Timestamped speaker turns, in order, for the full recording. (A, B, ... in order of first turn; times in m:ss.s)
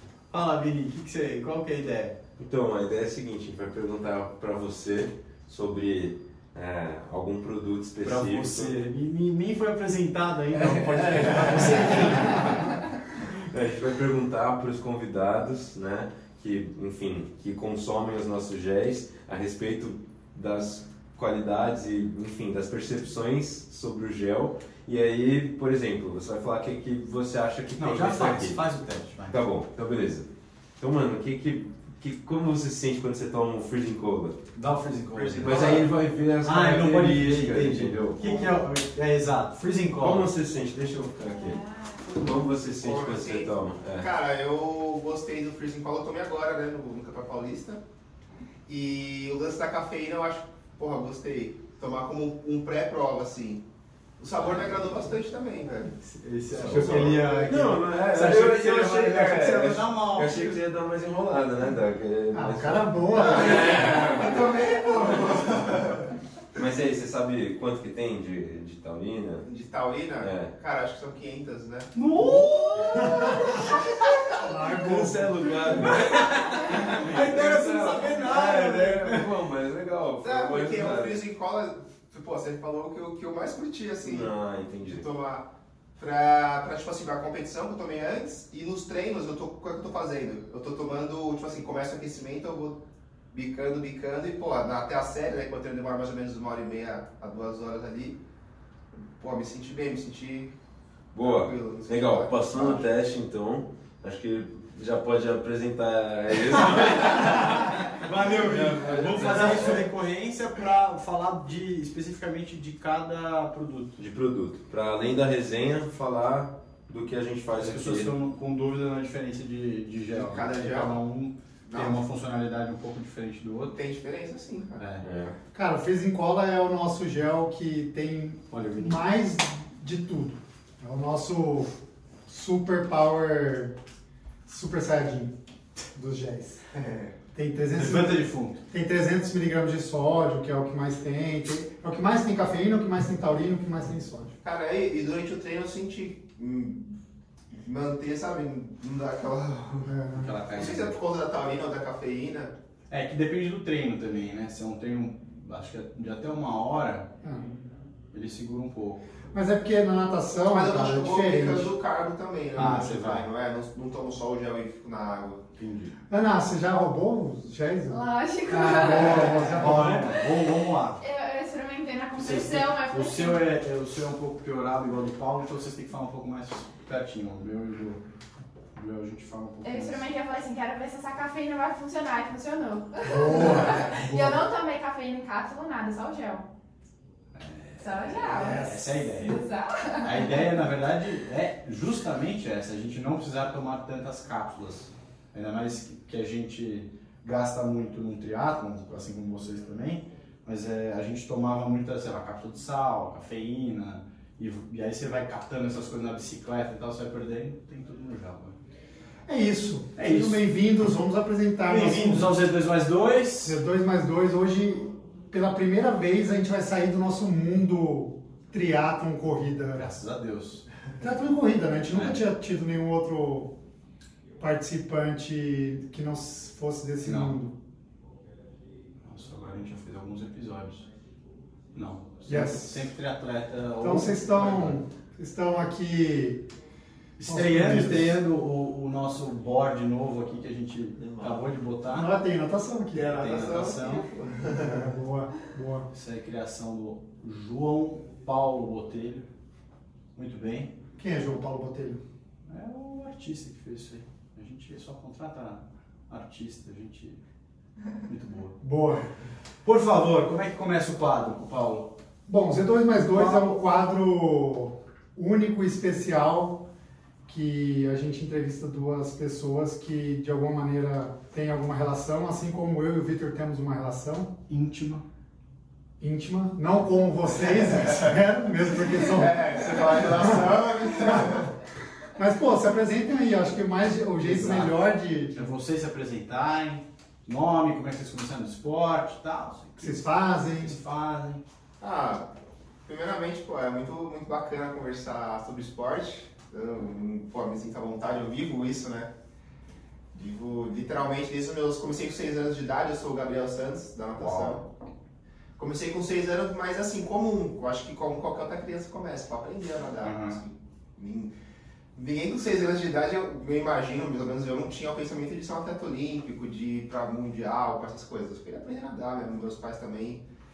0:00.3-0:02.2 A
0:02.4-0:08.7 B
0:08.0-0:12.7 A
0:10.5-0:28.6 B
0:27.8-0:29.4 A
0:29.3-0:30.3 B
0:30.8-0:34.4 B
0:34.6-0:35.9 A
0:35.1-0:38.6 B
0:35.5-0:35.8 C
0:36.4-0:40.3 A
0:40.0-0:41.6 B
0:41.2-0:42.3 D
0:42.1-0:44.1 B
0:42.8-0:47.8 C
0:48.7-0:53.6 C
0:54.2-0:56.0 C
0:56.0-1:00.6 A
0:56.6-0:57.4 C
0:56.6-1:05.5 B
1:02.3-1:04.0 E
1:03.2-1:06.1 C
1:06.6-1:09.4 B
1:09.4-1:11.9 C
1:10.2-1:10.5 B
1:12.0-1:13.4 A
1:12.2-1:21.2 B
1:13.0-1:13.4 E
1:13.0-1:14.5 C
1:14.4-1:15.6 E
1:15.7-1:19.3 A
1:20.2-1:32.8 C
1:24.0-1:25.1 B
1:33.3-1:38.2 C
1:39.0-1:40.5 C
1:41.1-1:49.9 B
1:41.2-1:42.9 C
1:47.8-1:54.0 A
1:54.0-1:58.1 B
1:57.5-2:03.8 A
2:00.1-2:01.0 C
2:01.7-2:02.0 C
2:03.7-2:04.9 C
2:04.8-2:05.1 A
2:05.0-2:05.3 B
2:05.5-2:11.7 E
2:08.5-2:09.0 A
2:12.3-2:13.7 E
2:14.5-2:15.3 E
2:15.9-2:16.6 E
2:16.7-2:17.2 C
2:17.3-2:24.4 E
2:17.7-2:18.6 A
2:24.4-2:27.0 C
2:27.5-2:30.0 C
2:29.9-2:30.3 E
2:30.1-2:31.0 A
2:30.5-2:32.5 C
2:32.9-2:37.1 A
2:37.2-2:37.6 E
2:38.1-2:39.0 A
2:39.3-2:41.8 E
2:40.5-2:45.4 C
2:42.6-2:43.3 A
2:45.6-2:46.0 A
2:46.1-2:50.1 E
2:47.9-2:49.6 D
2:49.4-2:51.0 A
2:51.0-2:53.5 D
2:52.2-2:58.0 A
2:58.7-3:00.1 A
2:59.6-3:06.5 D
3:03.0-3:04.0 E
3:03.3-3:04.4 A
3:07.3-3:09.4 A
3:07.8-3:10.5 D
3:08.3-3:08.8 E
3:10.0-3:28.6 A
3:29.3-3:32.4 E
3:30.0-3:30.4 A
3:31.7-3:33.6 A
3:33.4-3:39.8 E
3:39.8-3:40.6 A
3:41.0-3:43.5 E
3:44.4-3:47.6 E
3:47.0-3:47.4 A
3:49.0-3:50.9 A
3:51.7-3:54.8 A
3:52.3-3:52.9 E
3:53.8-3:56.4 E
3:57.2-4:02.1 A
3:57.3-3:58.2 E
4:01.0-4:01.4 C
4:01.9-4:03.1 E
4:03.0-4:04.1 A
4:03.0-4:04.9 C
4:04.5-4:05.9 E
4:05.9-4:09.3 A
4:10.2-4:10.7 A
4:11.0-4:12.0 E
4:12.5-4:17.2 A
4:18.1-4:18.6 A
4:18.6-4:19.1 E
4:19.6-4:21.9 A
4:22.3-4:26.6 E
4:23.1-4:23.5 A
4:27.3-4:34.3 E
4:34.5-4:35.0 A
4:36.0-4:40.5 E
4:37.8-4:38.1 C
4:39.0-4:41.5 C
4:41.1-4:41.3 E
4:42.1-4:45.4 E
4:44.2-4:44.8 A
4:45.3-4:51.4 A
4:49.8-4:50.8 E
4:51.8-4:52.3 C
4:52.9-4:59.1 C
5:00.1-5:04.6 C
5:04.2-5:04.6 A
5:05.6-5:11.3 C
5:10.0-5:10.4 A
5:12.0-5:20.2 C